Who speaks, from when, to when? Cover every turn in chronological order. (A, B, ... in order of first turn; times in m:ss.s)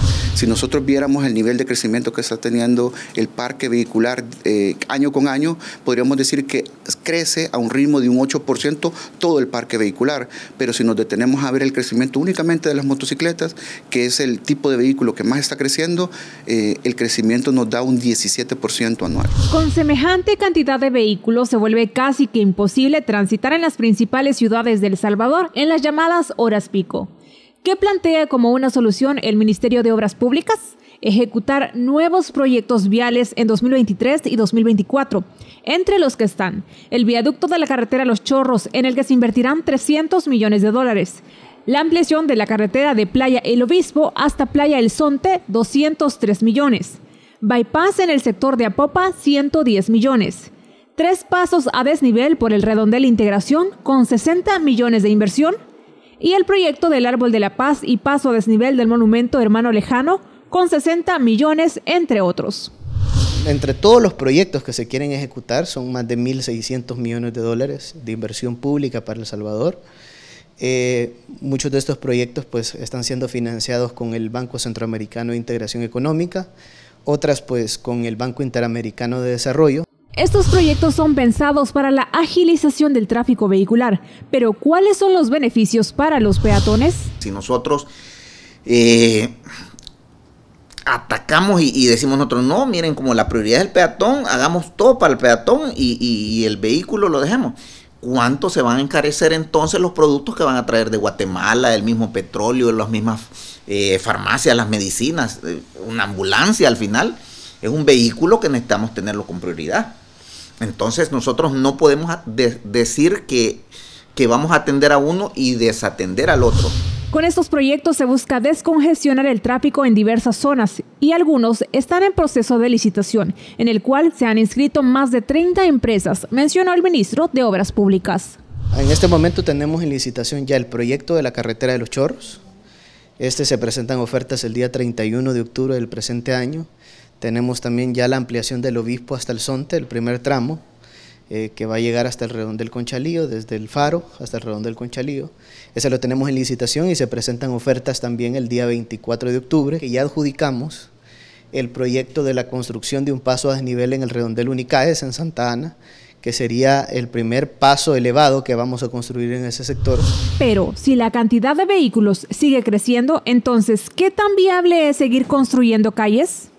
0:00.4-0:19.3 A
0:19.5-0:27.1 B
0:27.6-0:55.6 B
0:56.2-1:02.7 B
1:03.4-1:09.8 C
1:10.6-1:16.5 C
1:17.0-1:19.8 C
1:20.2-1:27.1 B
1:27.2-1:27.9 D
1:28.7-1:29.4 D
1:30.9-1:50.0 D
1:50.6-1:56.8 D
1:57.1-2:08.4 B
2:08.7-2:12.4 C
2:13.2-2:16.7 C
2:17.2-2:20.6 C
2:21.3-2:30.9 C
2:31.5-2:40.1 C
2:40.4-2:46.5 B